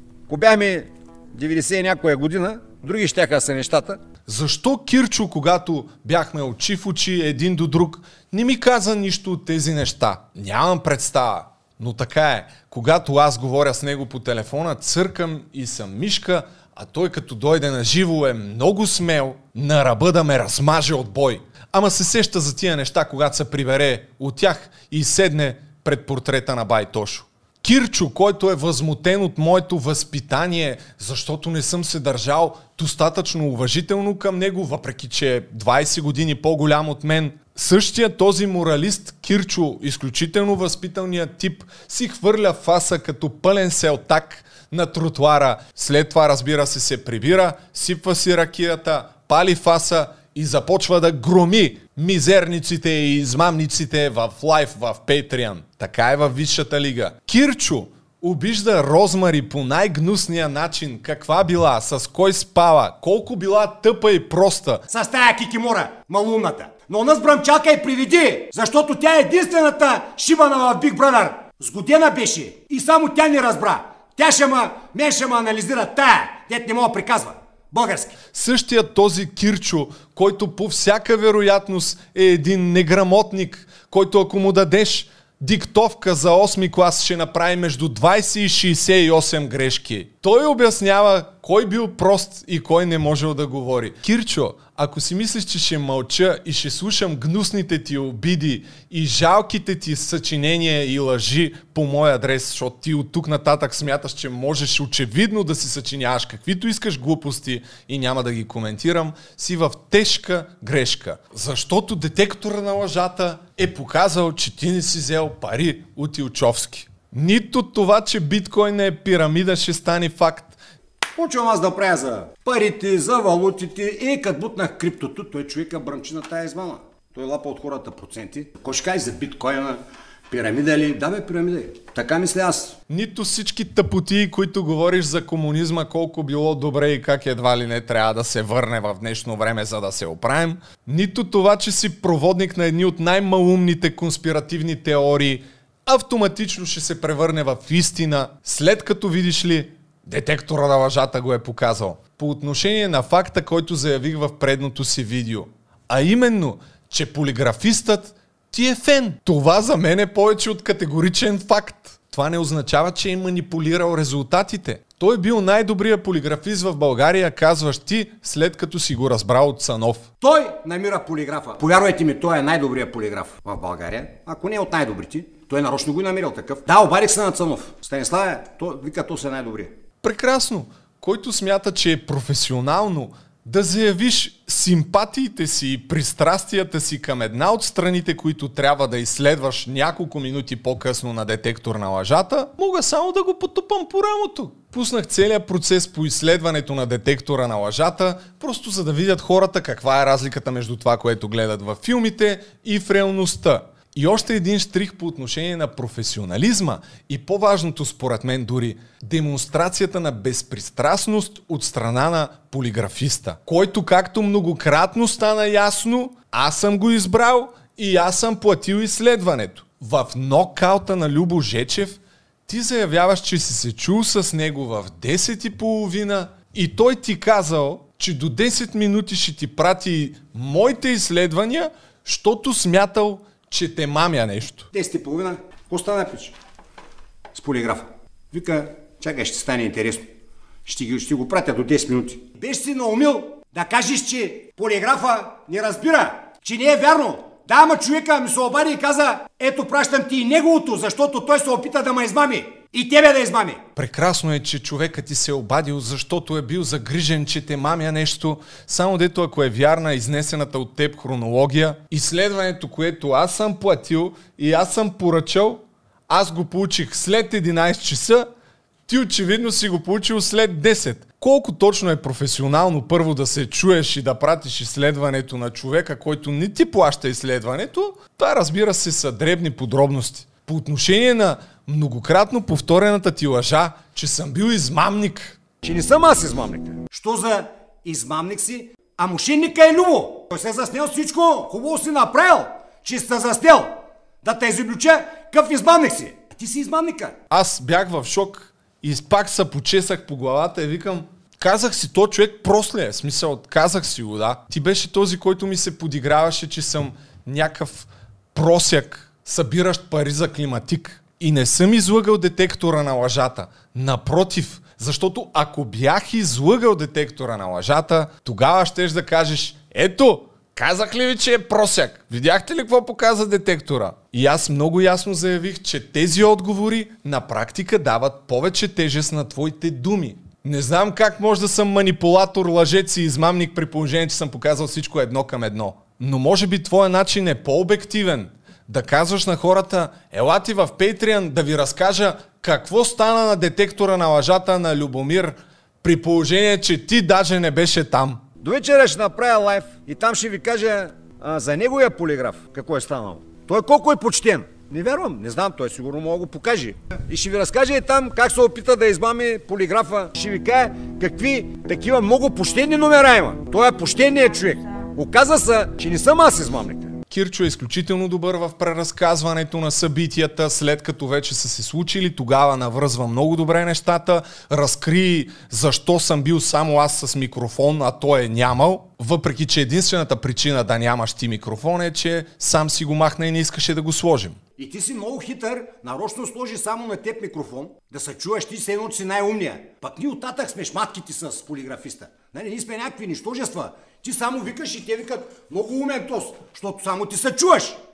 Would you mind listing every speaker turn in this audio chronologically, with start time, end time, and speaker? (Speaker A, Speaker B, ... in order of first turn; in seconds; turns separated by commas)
Speaker A: 0.3-4.0, Speaker B: 4.3-64.8, Speaker A: 64.9-78.2, Speaker B: 78.3-120.6, Speaker A: 121.2-132.8, Speaker B: 132.9-170.1, Speaker A: 170.2-179.7, Speaker B: 180.0-234.7, Speaker A: 234.7-236.3, Speaker A: 237.3-240.1, Speaker A: 240.6-253.6, Speaker B: 253.8-268.3, Speaker B: 268.9-285.4, Speaker A: 285.6-297.1, Speaker B: 297.3-348.2, Speaker A: 348.4-367.0, Speaker B: 367.1-384.4, Speaker A: 384.6-397.8